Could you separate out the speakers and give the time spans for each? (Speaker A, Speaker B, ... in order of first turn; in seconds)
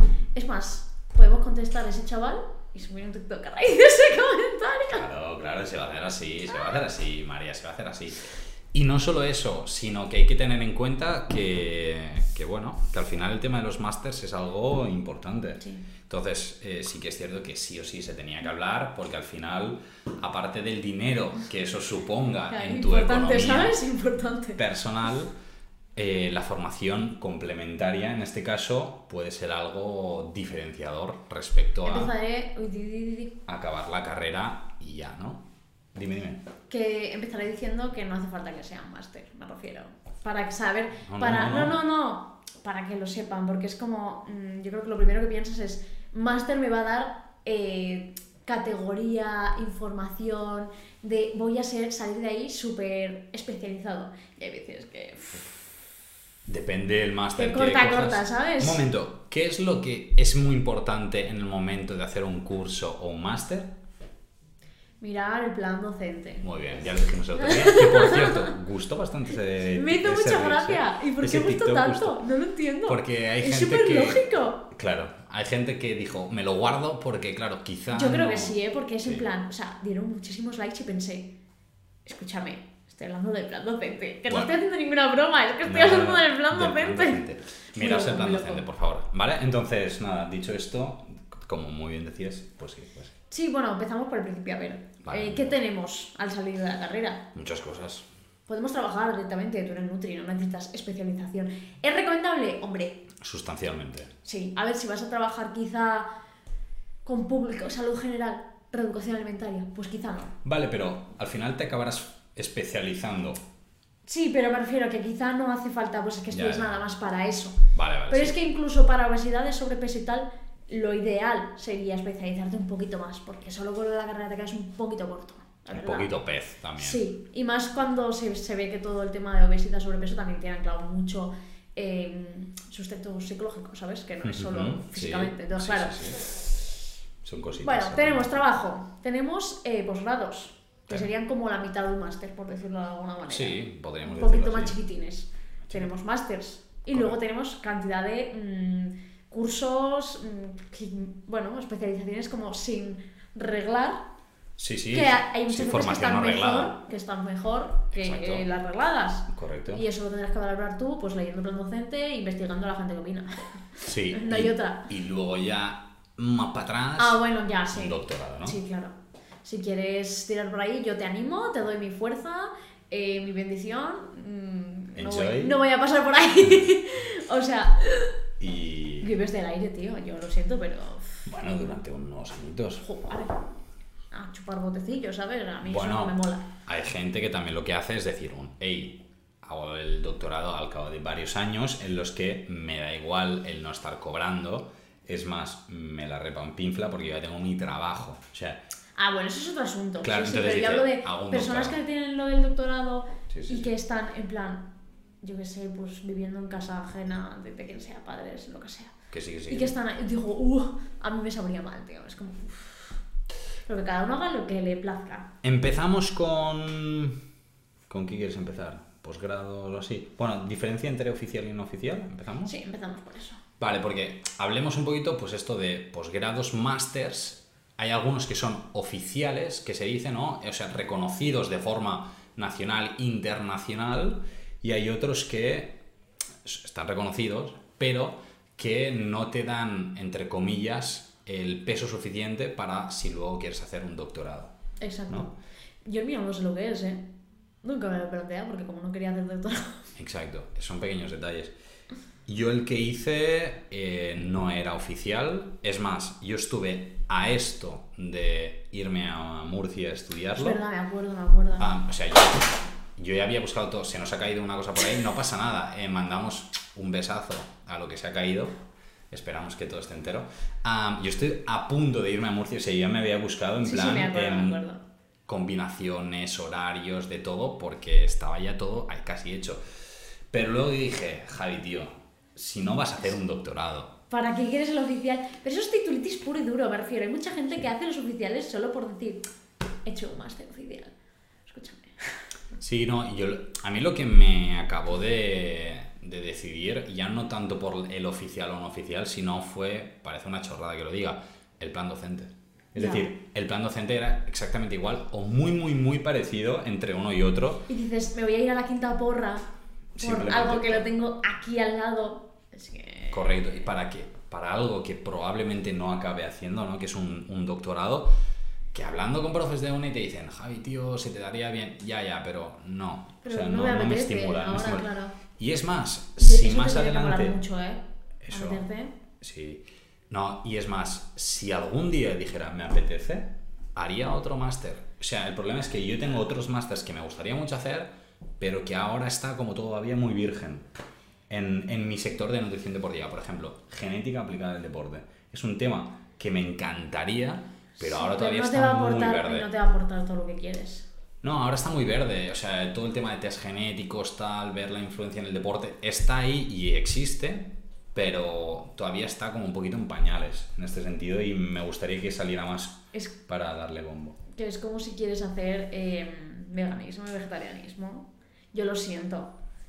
Speaker A: 0.3-5.1, 22.5-24.6, 31.8-33.4, 36.7-55.5, 57.4-58.8, 65.0-66.5, 67.4-68.5, 69.7-74.7, 77.9-81.3, 82.0-88.7, 93.3-97.2, 98.5-103.1, 104.2-106.1, 107.0-110.3, 114.1-126.1, 126.8-136.0, 137.6-154.0, 154.9-164.9, 167.0-178.1, 179.0-181.3, 182.8-183.3, 184.1-186.5, 199.0-204.7, 205.2-208.9, 209.5-213.0, 213.7-215.3, 222.4-223.4, 244.8-245.3, 245.8-247.1, 247.6-249.9, 260.4-261.7, 273.6-274.8, 284.1-289.3, 289.9-290.9, 291.5-292.1, 302.8-303.1, 307.7-309.4, 310.0-313.3, 323.2-325.2, 326.2-328.9, 347.8-350.9, 364.3-369.4
Speaker B: 4.9-23.8, 24.6-25.3, 26.0-32.1, 33.5-36.4, 41.0-41.8, 56.5-63.7, 66.4-72.2, 72.9-79.2, 85.6-93.1, 95.0-95.6, 97.3-98.1, 103.2-104.1, 110.4-113.4, 116.3-116.7, 117.7-118.5, 125.7-127.0, 134.2-136.5, 137.2-138.3, 143.3-144.8, 145.7-145.9, 154.6-156.7, 157.9-158.5, 159.3-159.8, 163.8-167.2, 167.7-168.6, 175.0-175.6, 176.4-176.7, 178.4-179.1, 181.3-182.8, 185.7-198.6, 200.0-201.8, 203.3-203.7, 209.1-209.8, 215.4-217.2, 217.9-222.5, 223.6-235.8, 236.4-244.5, 249.9-251.5, 252.3-260.6, 261.6-268.6, 269.1-274.6, 275.3-279.6, 280.3-283.9, 292.6-307.7, 310.0-310.9, 313.1-318.1, 318.7-327.4, 328.2-328.6, 329.2-340.7, 341.3-349.5, 351.2-364.2